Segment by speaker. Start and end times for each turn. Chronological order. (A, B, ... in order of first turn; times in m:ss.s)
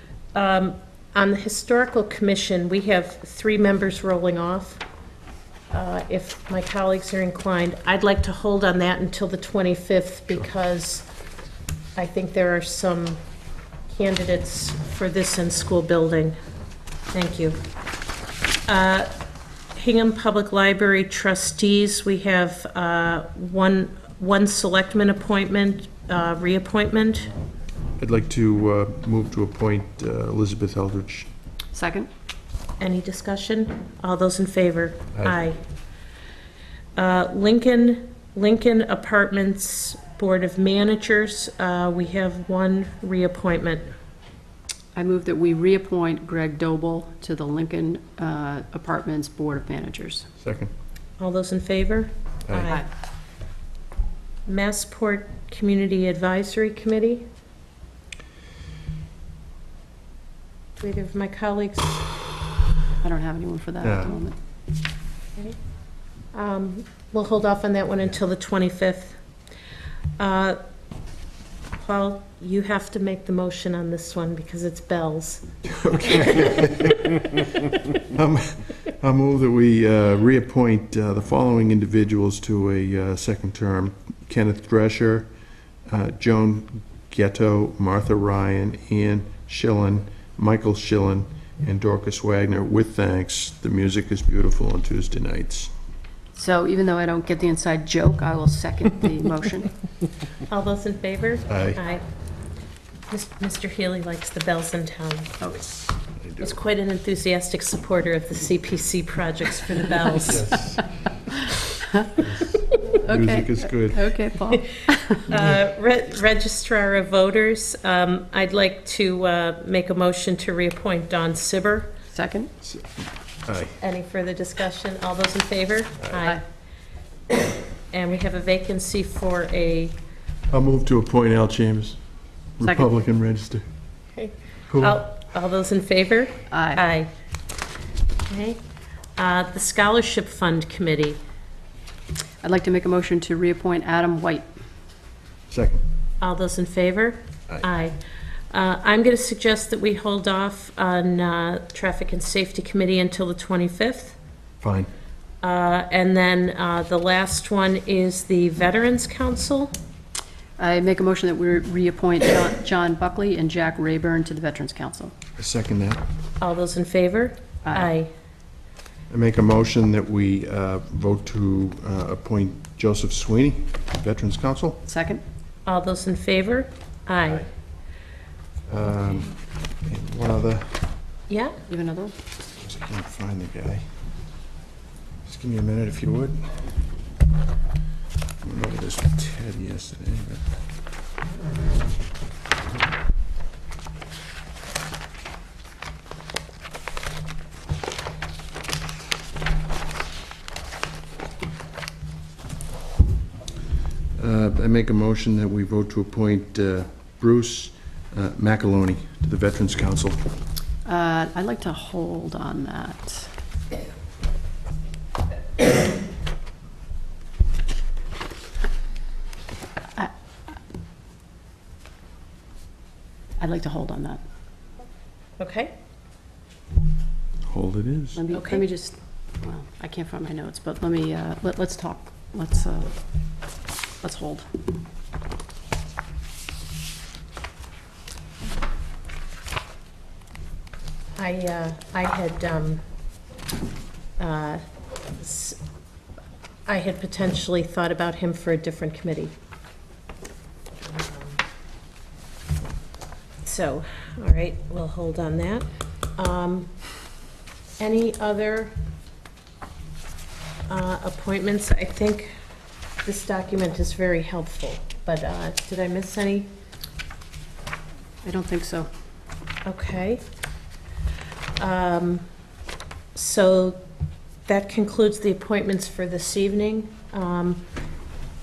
0:00.4-0:04.8 A
0:05.7-0:11.1 A
0:12.0-0:13.2 A
0:13.9-0:16.4 A
0:17.1-0:17.6 A
0:18.7-0:19.1 A
0:19.8-0:27.3 A
0:28.0-0:31.3 B
0:31.7-0:32.1 C
0:32.8-0:35.6 A
0:37.0-0:43.9 A
0:45.0-0:50.3 C
0:50.4-0:50.7 B
0:51.2-0:52.8 A
0:52.5-0:52.7 B
0:54.5-0:57.2 A
1:00.8-1:02.0 A
1:03.0-1:04.4 C
1:03.8-1:04.2 B
1:06.3-1:09.2 A
1:10.2-1:10.6 A
1:11.8-1:15.5 A
1:15.7-1:17.1 B
1:18.1-1:25.3 B
1:25.9-1:35.7 B
1:36.3-1:39.7 C
1:40.5-1:42.0 A
1:41.5-1:41.8 B
1:43.1-1:45.4 A
1:46.2-1:46.5 B
1:46.4-1:50.6 A
1:50.3-1:50.8 B
1:52.0-1:52.2 C
1:53.0-1:54.2 B
1:53.0-1:55.4 C
1:55.3-2:01.9 A
2:02.1-2:02.5 C
2:02.6-2:03.8 B
2:03.8-2:06.4 A
2:07.9-2:10.0 A
2:10.5-2:12.0 B
2:12.6-2:13.6 B
2:12.6-2:12.9 C
2:14.2-2:17.1 A
2:14.7-2:15.0 B
2:16.5-2:16.8 C
2:18.3-2:18.6 A
2:19.2-2:21.2 A
2:22.4-2:24.5 C
2:25.5-2:25.8 B
2:26.2-2:28.0 A
2:28.5-2:34.2 A
2:34.6-2:34.9 B
2:35.4-2:39.7 A
2:40.6-2:45.1 C
2:45.4-2:46.0 B
2:46.4-2:48.1 A
2:47.6-2:47.9 C
2:49.1-2:54.8 B
2:54.8-2:55.2 C
2:55.7-2:57.5 A
2:58.7-3:00.8 B
3:01.3-3:01.6 A
3:01.7-3:02.1 C
3:02.6-3:03.9 B
3:05.2-3:06.8 B
3:08.4-3:10.4 B
3:24.2-3:30.2 B
3:30.8-3:33.3 C
3:43.4-3:44.2 C
3:45.4-3:45.7 A
3:47.4-3:48.2 B
3:48.2-3:52.9 C
3:48.3-3:48.6 A
3:54.0-3:54.5 C
4:01.2-4:02.8 A
4:04.2-4:04.6 A
4:05.2-4:05.6 A
4:06.7-4:09.3 A
4:10.8-4:11.4 A
4:13.4-4:16.7 A
4:17.8-4:18.7 A
4:20.7-4:22.3 A
4:23.0-4:26.5 A
4:28.2-4:28.9 C
4:29.6-4:30.2 A
4:31.6-4:32.2 A
4:33.2-4:33.8 A
4:34.5-4:37.6 A